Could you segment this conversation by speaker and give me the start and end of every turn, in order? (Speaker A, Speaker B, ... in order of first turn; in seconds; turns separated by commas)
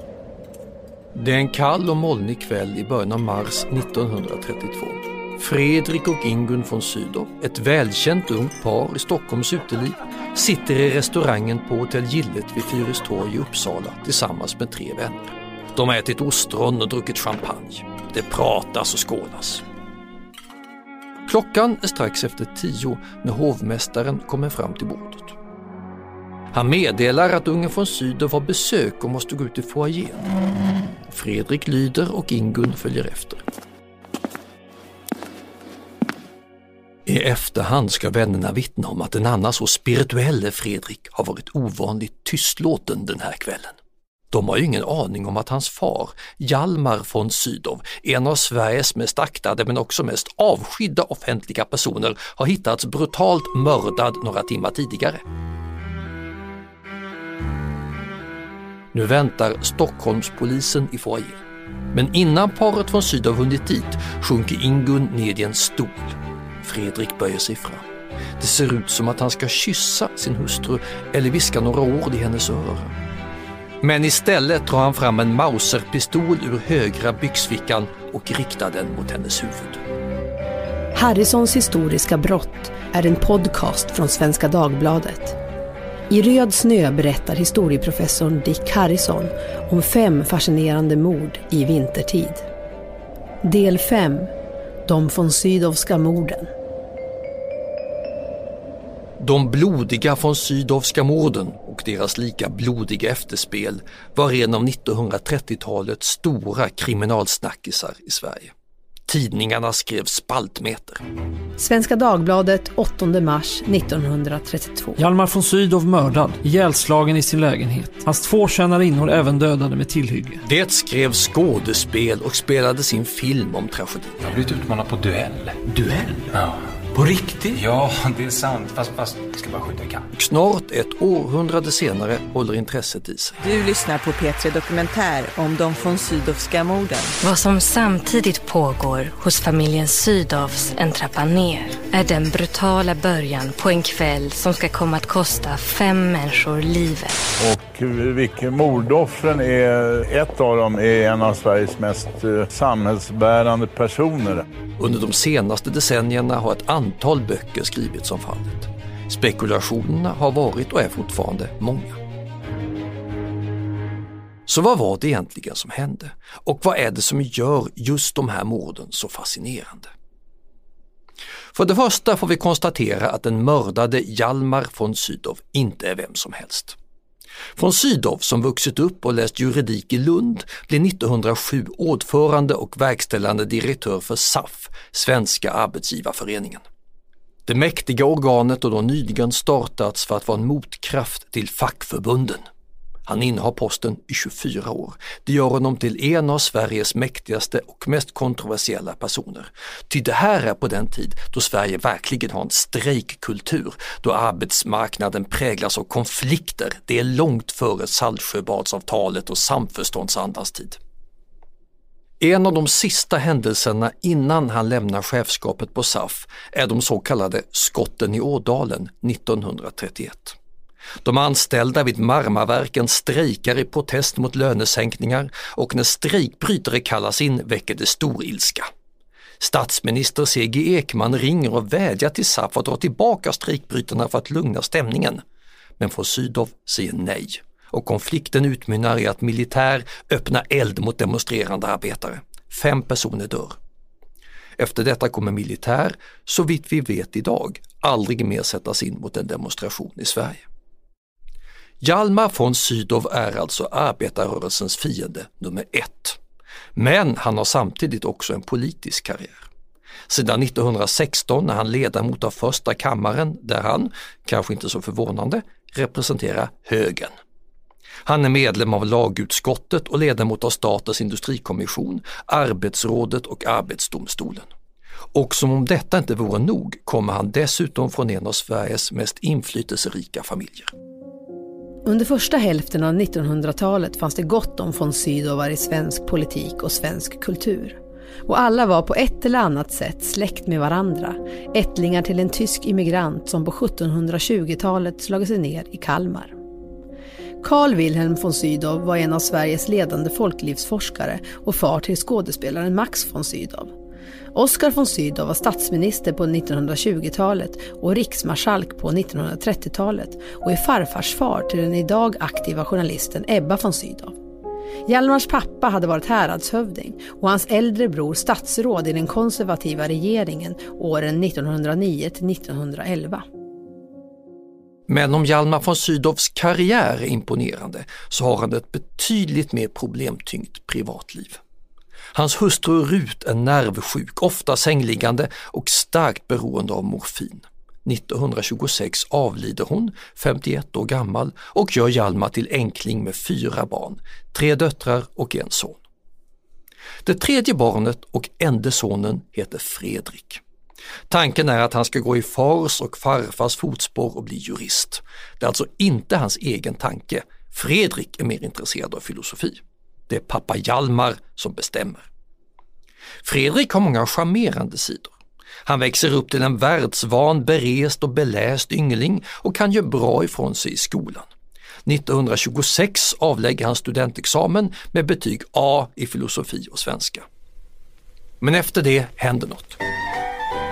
Speaker A: 1.1-19.6, Speaker A: 21.3-25.4, Speaker A: 26.5-30.3, Speaker A: 31.1-33.4, Speaker A: 37.0-43.8, Speaker A: 44.3-55.2, Speaker A: 58.9-67.8, Speaker A: 68.4-73.0, Speaker A: 73.8-79.8, Speaker B: 80.9-85.4, Speaker B: 86.1-92.4, Speaker B: 93.4-94.3, Speaker B: 94.8-96.5, Speaker A: 99.2-108.5, Speaker A: 109.1-111.0, Speaker B: 111.6-115.0, Speaker C: 115.0-120.4, Speaker A: 120.4-124.2, Speaker D: 124.2-130.1, Speaker A: 130.1-133.4, Speaker E: 133.4-137.2, Speaker F: 137.2-147.2, Speaker G: 147.4-154.4, Speaker A: 154.8-162.0, Speaker A: 164.4-169.9, Speaker A: 171.5-176.8, Speaker A: 177.5-186.6, Speaker A: 187.4-192.4, Speaker A: 193.1-210.8, Speaker A: 212.2-220.4, Speaker A: 221.0-228.7, Speaker A: 229.4-235.2, Speaker A: 235.8-243.6, Speaker A: 244.6-250.4, Speaker A: 251.8-256.2, Speaker A: 256.7-259.5, Speaker A: 260.1-267.1, Speaker A: 268.0-274.5, Speaker A: 275.1-280.7, Speaker B: 281.8-296.3, Speaker B: 297.4-303.7, Speaker B: 304.3-314.1, Speaker B: 314.9-323.2, Speaker A: 324.9-331.4, Speaker A: 332.1-345.8, Speaker A: 347.0-350.4, Speaker A: 351.1-362.1, Speaker A: 363.2-365.1, Speaker A: 365.6-371.3, Speaker A: 371.8-377.2, Speaker A: 378.4-379.8